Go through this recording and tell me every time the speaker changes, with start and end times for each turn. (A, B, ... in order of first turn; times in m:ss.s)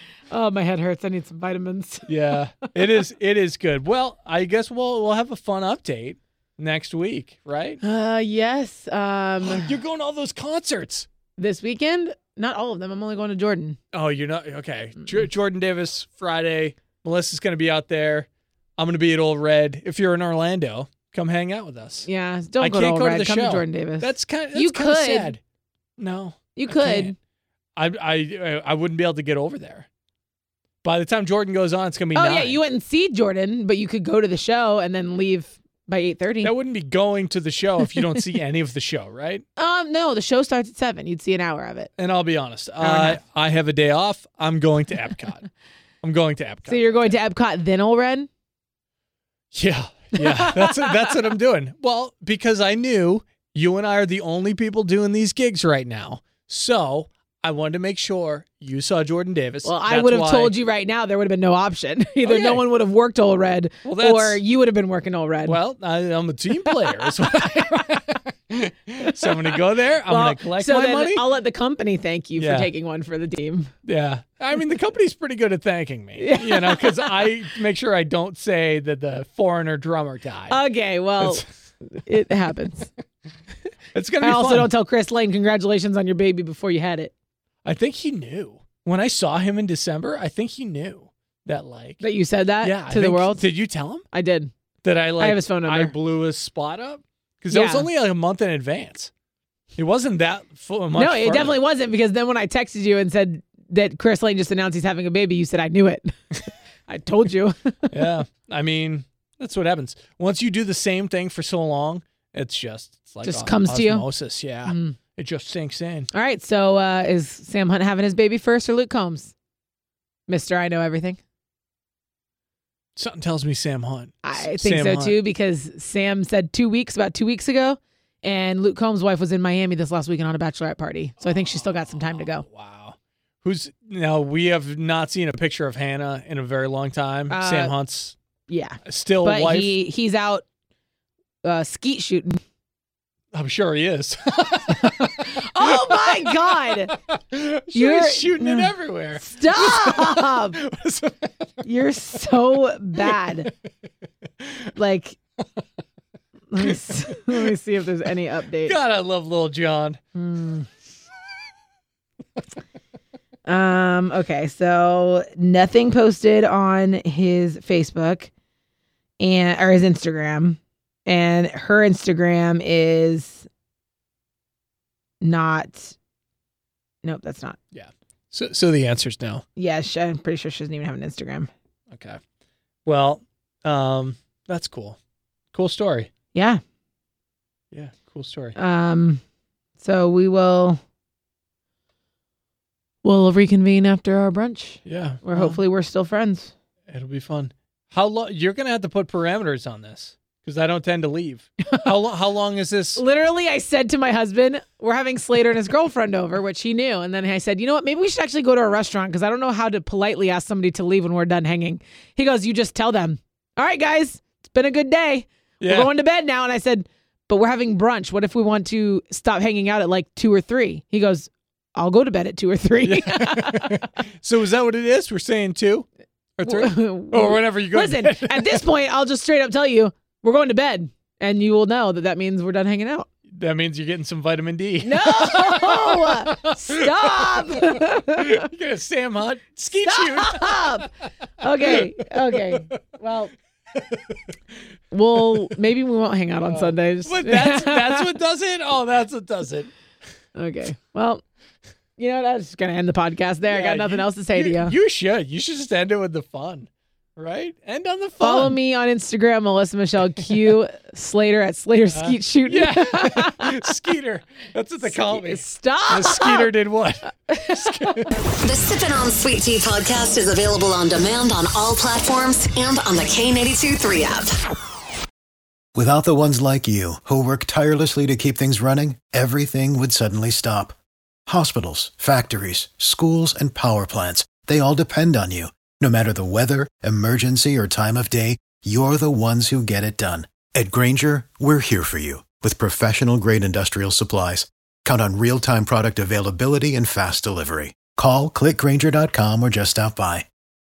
0:00.3-0:02.7 A
0:02.1-0:07.8 B
0:07.8-0:09.7 A
0:09.4-0:11.1 B
0:11.4-0:13.8 A
0:13.9-0:22.1 B
0:22.0-0:25.3 A
0:22.6-0:25.4 B
0:26.0-0:27.1 B
0:26.6-0:27.1 A
0:27.8-0:29.9 B
0:30.8-0:32.6 B
0:32.1-0:36.5 A
0:36.4-0:39.4 B
0:39.6-0:41.9 A
0:42.0-0:45.5 B
0:42.8-0:43.2 A
0:46.0-0:47.2 B
0:46.7-0:48.3 A
0:49.5-1:00.5 B
0:50.1-0:51.1 A
0:59.6-1:05.6 A
1:02.2-1:02.6 B
1:03.8-1:04.4 B
1:05.4-1:11.3 B
1:06.8-1:07.1 A
1:09.0-1:09.5 A
1:10.0-1:13.7 A
1:12.4-1:12.7 B
1:13.8-1:20.6 B
1:16.2-1:17.2 A
1:20.5-1:22.9 A
1:21.2-1:21.4 B
1:23.9-1:24.7 B
1:24.2-1:27.1 A
1:27.6-1:32.0 B
1:32.0-1:33.4 A
1:32.6-1:34.0 B
1:34.1-1:34.5 A
1:34.8-1:39.1 B
1:35.2-1:35.9 A
1:37.5-1:37.9 A
1:39.8-1:41.6 B
1:40.9-1:46.1 A
1:46.9-1:48.1 A
1:47.9-1:56.1 B
1:53.2-1:54.1 A
1:54.6-1:55.0 A
1:56.1-1:59.3 A
2:00.3-2:01.2 A
2:03.0-2:05.2 B
2:04.2-2:12.4 A
2:12.1-2:18.2 B
2:17.3-2:17.7 A
2:18.5-2:20.4 A
2:18.8-2:19.7 B
2:21.4-2:22.4 A
2:23.3-2:31.6 B
2:24.8-2:27.0 A
2:27.7-2:30.6 A
2:31.6-2:33.5 A
2:34.4-2:34.7 B
2:34.8-2:35.2 A
2:36.5-2:38.8 A
2:36.6-2:37.5 B
2:38.6-2:40.0 B
2:40.1-2:40.7 A
2:43.4-2:48.3 A
2:49.2-2:53.5 A
2:55.2-2:55.9 A
2:57.0-2:57.6 A
2:57.7-2:59.4 B
2:59.6-3:01.5 A
3:01.9-3:02.2 B
3:02.8-3:05.0 B
3:05.5-3:06.1 B
3:06.3-3:06.6 A
3:07.7-3:08.6 B
3:08.6-3:09.2 A
3:09.8-3:10.8 A
3:13.0-3:16.5 A
3:14.8-3:15.6 B
3:16.9-3:23.0 B
3:23.0-3:43.8 A
3:35.6-3:35.9 B
3:42.8-3:48.6 B
3:46.4-3:53.1 A
3:53.3-4:00.9 B
3:54.8-3:58.5 A
3:59.8-4:03.3 A
4:01.6-4:02.8 B
4:03.7-4:04.2 B
4:04.9-4:08.1 A
4:06.5-4:09.7 B
4:10.3-4:11.2 A
4:12.0-4:14.7 A
4:13.5-4:18.5 B
4:18.2-4:23.7 A
4:21.9-4:28.1 B
4:24.8-4:26.5 A
4:27.3-4:28.1 A
4:28.3-4:34.4 C
4:35.7-4:40.8 D
4:41.3-5:00.2 D